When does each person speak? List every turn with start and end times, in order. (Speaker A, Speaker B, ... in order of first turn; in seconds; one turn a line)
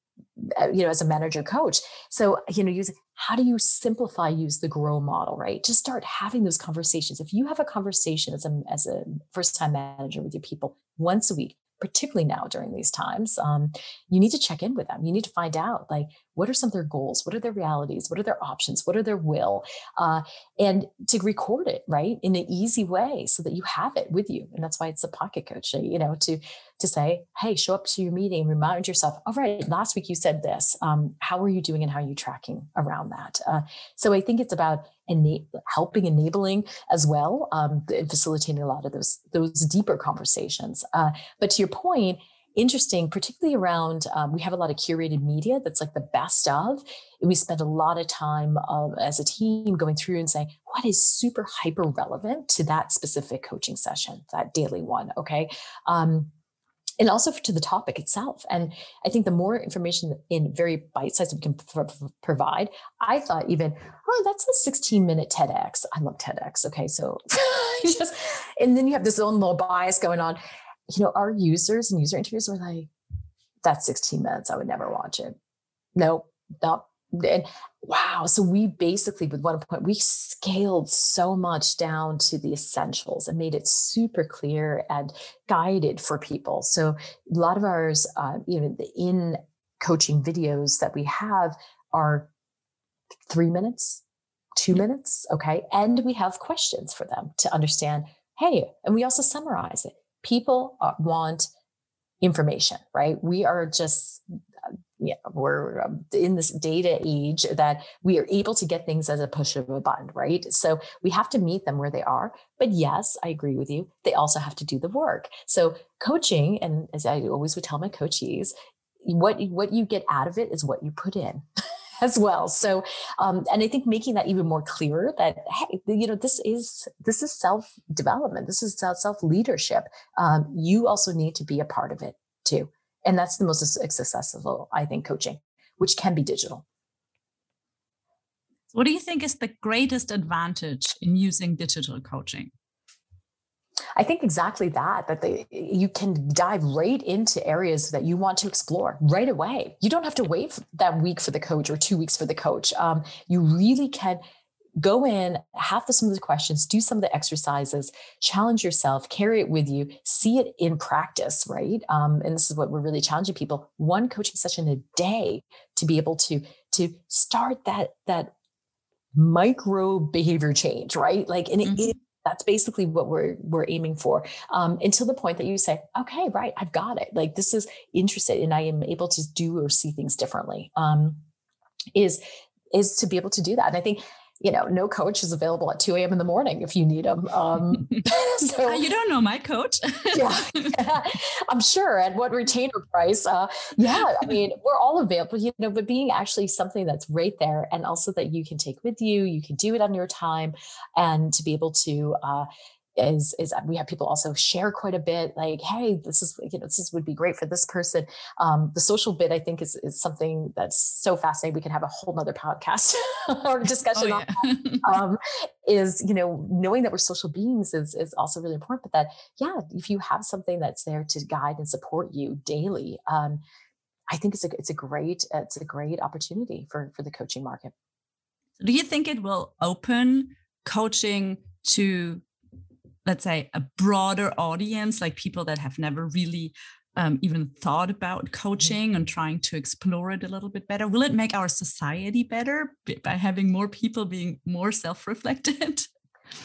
Speaker A: 0.4-56.3
Speaker A: 57.0-70.4
Speaker A: 70.9-72.9
Speaker A: 73.6-75.3
Speaker A: 76.0-92.3
Speaker A: 93.3-94.0
Speaker A: 94.5-101.5
Speaker A: 102.2-104.2
Speaker A: 105.0-121.4
Speaker A: 122.0-136.6
Speaker B: 138.7-142.5
Speaker A: 143.9-154.2
Speaker A: 154.8-168.3
Speaker A: 169.1-181.2
Speaker B: 171.6-171.9
Speaker A: 181.9-188.8
Speaker B: 188.6-190.8
Speaker A: 190.1-223.4
Speaker B: 213.9-215.0
Speaker A: 224.1-227.7
Speaker B: 228.6-232.2
Speaker B: 233.0-245.9